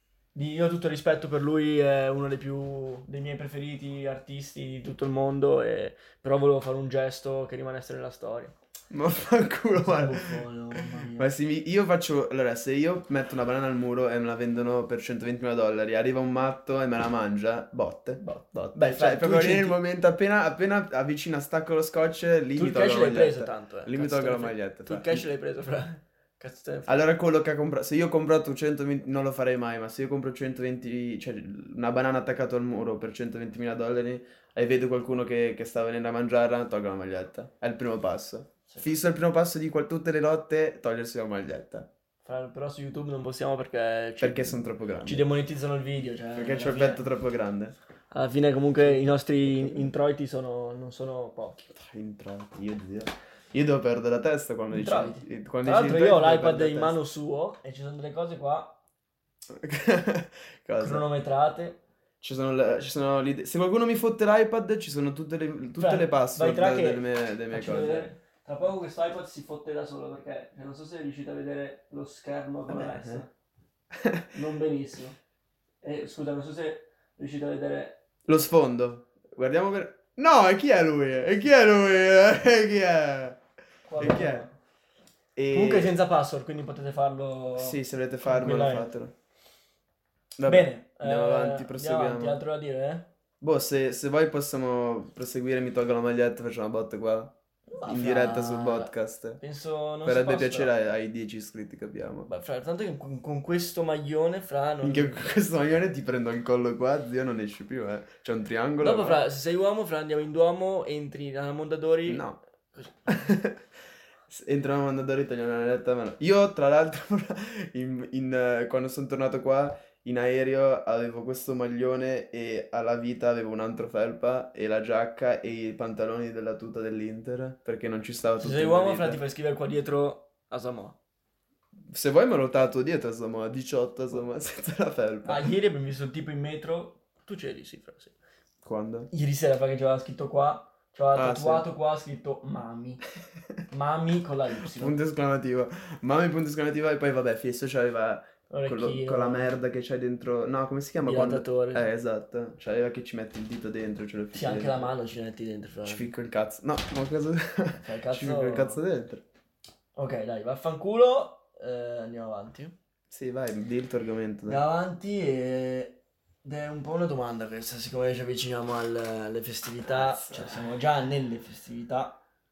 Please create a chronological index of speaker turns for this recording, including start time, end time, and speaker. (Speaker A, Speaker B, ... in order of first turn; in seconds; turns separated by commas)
Speaker A: 0.3-8.6, Speaker B: 8.9-10.5, Speaker A: 9.8-11.3, Speaker B: 11.2-25.2, Speaker A: 18.2-19.8, Speaker A: 22.6-27.0, Speaker B: 26.9-41.9, Speaker A: 42.2-47.0, Speaker B: 44.2-45.3, Speaker B: 46.3-47.8, Speaker A: 48.1-51.6, Speaker B: 48.8-49.9, Speaker B: 51.6-57.0, Speaker A: 54.7-58.8, Speaker B: 59.5-61.0, Speaker A: 60.8-61.8, Speaker B: 62.2-68.1, Speaker A: 65.8-73.3, Speaker B: 72.7-73.2, Speaker B: 73.9-74.3, Speaker A: 74.3-75.2, Speaker A: 75.8-78.0, Speaker B: 78.3-83.4, Speaker A: 83.9-84.5, Speaker B: 84.0-84.5, Speaker B: 85.4-86.0, Speaker A: 85.5-88.9, Speaker B: 87.6-89.1, Speaker B: 90.4-92.4, Speaker A: 90.5-93.1, Speaker B: 93.4-99.4, Speaker A: 97.7-100.7, Speaker B: 100.0-102.3, Speaker A: 102.3-105.3, Speaker B: 104.8-109.2, Speaker A: 108.8-113.1, Speaker B: 112.1-112.4, Speaker B: 113.1-113.6, Speaker B: 114.3-129.2, Speaker A: 128.4-131.0, Speaker B: 131.9-135.5, Speaker A: 135.2-138.2, Speaker B: 138.6-139.1, Speaker A: 139.1-143.0, Speaker B: 141.2-141.7, Speaker A: 143.7-145.0, Speaker B: 144.7-154.9, Speaker A: 148.5-149.5, Speaker A: 151.0-151.9, Speaker A: 154.3-156.1, Speaker B: 155.8-159.2, Speaker A: 157.8-158.8, Speaker A: 160.0-162.8, Speaker B: 163.1-164.6, Speaker A: 164.5-172.2, Speaker B: 169.9-170.6